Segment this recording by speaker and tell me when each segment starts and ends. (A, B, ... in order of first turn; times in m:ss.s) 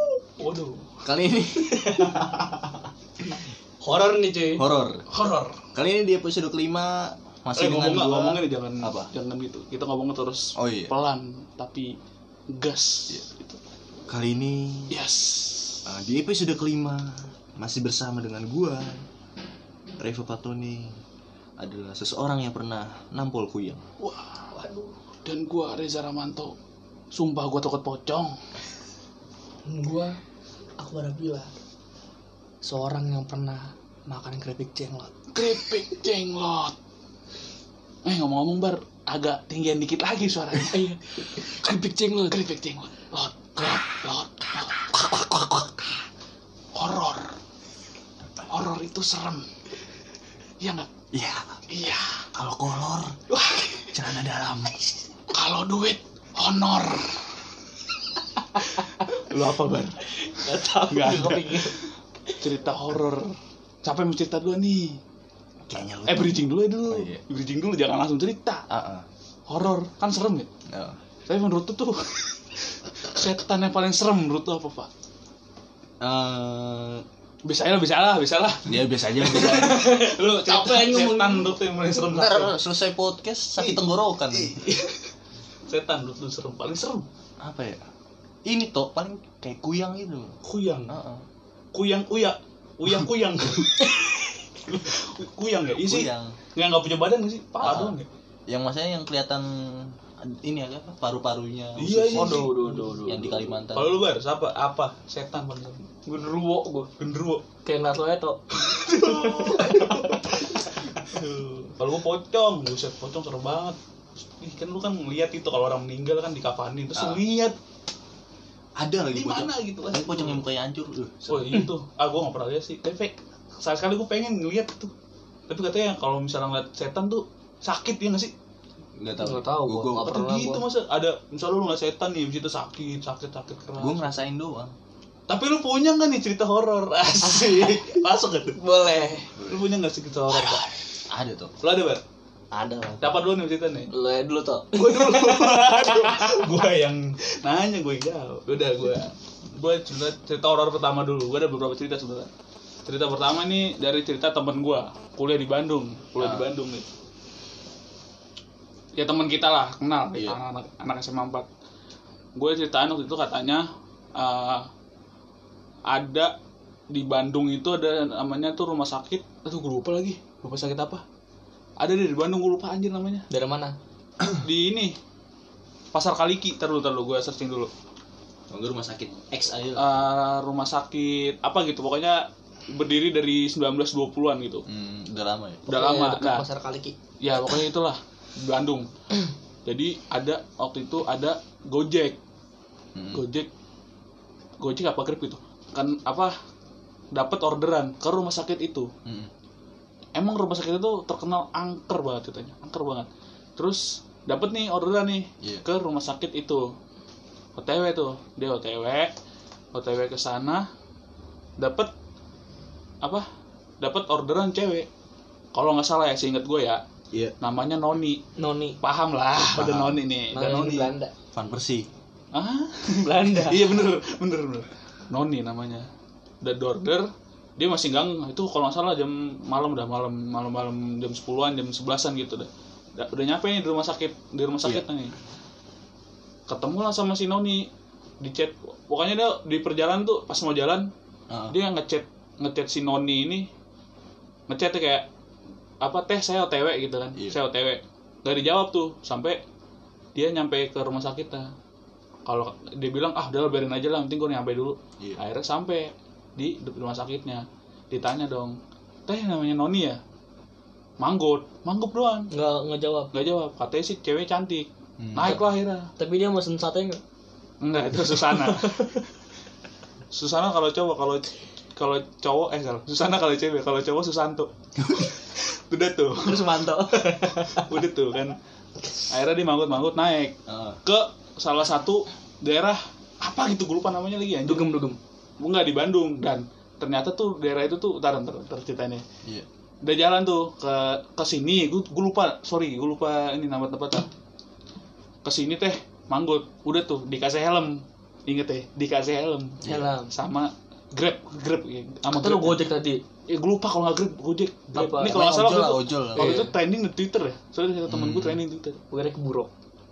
0:00.4-0:00.9 A
0:01.0-0:02.2 B
0:01.6-0:02.2 C
0:03.8-0:04.6 C
0:04.6-0:05.0 B
0:05.1-0:05.6 A
0:05.7-0:09.1 B
0:07.5-0:12.0 A
0:10.6-0:10.9 B
0:12.5-0:13.6 A
0:14.1-0:15.0 B
0:14.9-0:15.8 A
0:15.8-0:19.0 B
0:20.0-0:21.0 B
0:21.6-0:23.8 B
0:24.0-0:24.4 A
0:24.5-0:24.9 C
0:25.2-0:26.6 A
0:27.1-0:28.4 A
0:29.6-0:30.2 C
0:30.8-0:31.5 C
0:32.6-0:35.3 C
0:35.3-0:36.7 A
0:38.0-0:40.8 A
0:40.7-0:42.4 C
0:42.2-0:45.9 A
0:46.7-0:47.4 A
0:48.5-0:49.5 A
0:50.6-0:50.9 A
0:51.1-0:51.6 B
0:51.7-0:52.2 A
0:52.3-0:53.2 B
0:53.3-0:54.8 A
0:53.9-0:54.4 B
0:55.3-0:57.2 A
0:58.5-1:00.1 A
1:00.2-1:01.8 C
1:00.8-1:01.8 A
1:02.4-1:05.0 A
1:05.7-1:07.2 B
1:06.0-1:08.6 A
1:08.7-1:09.0 B
1:09.5-1:10.5 A
1:10.7-1:11.0 B
1:11.3-1:12.4 A
1:13.0-1:14.9 A
1:16.0-1:17.0 B
1:17.4-1:22.6 A
1:18.6-1:19.9 B
1:19.8-1:21.5 C
1:22.1-1:24.7 B
1:23.6-1:25.1 A
1:25.7-1:27.0 A
1:27.4-1:27.8 B
1:28.4-1:30.4 B
1:30.4-1:31.0 A
1:30.9-1:31.2 B
1:31.7-1:38.1 A
1:35.8-1:36.4 B
1:37.6-1:44.0 B
1:41.8-1:43.0 A
1:42.1-1:43.4 C
1:43.7-1:45.9 A
1:46.0-1:46.9 C
1:47.0-1:47.4 A
1:47.6-1:50.2 C
1:48.6-1:53.8 A
1:54.3-1:57.6 A
1:56.9-1:57.2 B
1:58.8-2:01.6 B
1:59.1-2:00.4 A
2:01.3-2:04.9 A
2:05.5-2:08.3 A
2:09.0-2:10.2 B
2:09.2-2:10.6 C
2:10.0-2:14.2 A
2:13.8-2:14.7 B
2:15.3-2:18.6 A
2:17.2-2:18.0 C
2:18.6-2:19.3 C
2:19.4-2:19.7 B
2:19.4-2:20.6 A
2:21.1-2:21.6 B
2:21.6-2:22.0 A
2:22.5-2:23.2 B
2:23.0-2:23.9 A
2:23.9-2:26.3 C
2:24.7-2:32.3 A
2:32.8-2:36.8 A
2:36.2-2:36.5 B
2:38.9-2:41.5 A
2:40.1-2:40.4 B
2:42.4-2:44.7 A
2:45.9-2:46.3 A
2:46.9-2:51.0 A
2:51.8-2:53.2 A
2:53.3-2:53.8 C
2:54.4-2:55.0 A
2:55.9-2:57.7 A
2:58.5-3:00.0 B
2:59.8-3:04.6 A
3:04.7-3:05.7 B
3:05.7-3:07.0 C
3:05.7-3:06.4 A
3:07.2-3:08.9 A
3:09.6-3:12.2 A
3:12.9-3:13.2 B
3:13.1-3:13.5 A
3:14.6-3:16.3 A
3:17.1-3:18.9 A
3:19.0-3:19.3 B
3:20.2-3:26.7 A
3:27.6-3:29.1 A
3:29.7-3:30.7 A
3:31.6-3:31.9 A
3:33.8-3:34.9 A
3:35.5-3:36.8 A
3:37.4-3:38.2 A
3:38.4-3:38.8 C
3:38.8-3:40.9 A
3:39.4-3:40.0 B
3:40.3-3:41.1 C
3:41.3-3:41.9 B
3:42.3-3:45.9 A
3:43.0-3:43.7 C
3:46.4-3:47.0 A
3:47.6-3:55.1 A
3:56.5-3:57.7 A
3:58.2-4:00.9 A
4:01.3-4:01.6 B
4:01.5-4:03.5 A
4:04.5-4:05.1 A
4:05.8-4:09.4 A
4:10.1-4:11.5 A
4:12.2-4:20.0 A
4:21.0-4:22.3 A
4:22.3-4:23.1 C
4:23.1-4:25.9 A
4:25.0-4:25.4 B
4:26.0-4:27.0 C
4:27.6-4:29.0 A
4:28.4-4:29.0 C
4:30.1-4:38.4 A
4:34.8-4:35.1 B
4:36.2-4:37.7 C
4:39.1-4:44.7 A
4:40.5-4:40.8 B
4:44.4-4:45.0 C
4:45.4-4:49.0 A
4:49.8-4:54.1 A
4:55.2-4:59.6 A
4:59.6-4:59.9 B
4:59.6-5:00.1 C
5:00.1-5:02.6 A
5:02.1-5:03.0 C
5:03.3-5:08.8 A
5:04.7-5:05.2 C
5:05.0-5:06.5 B
5:06.2-5:06.5 C
5:07.9-5:08.4 B
5:08.9-5:09.5 C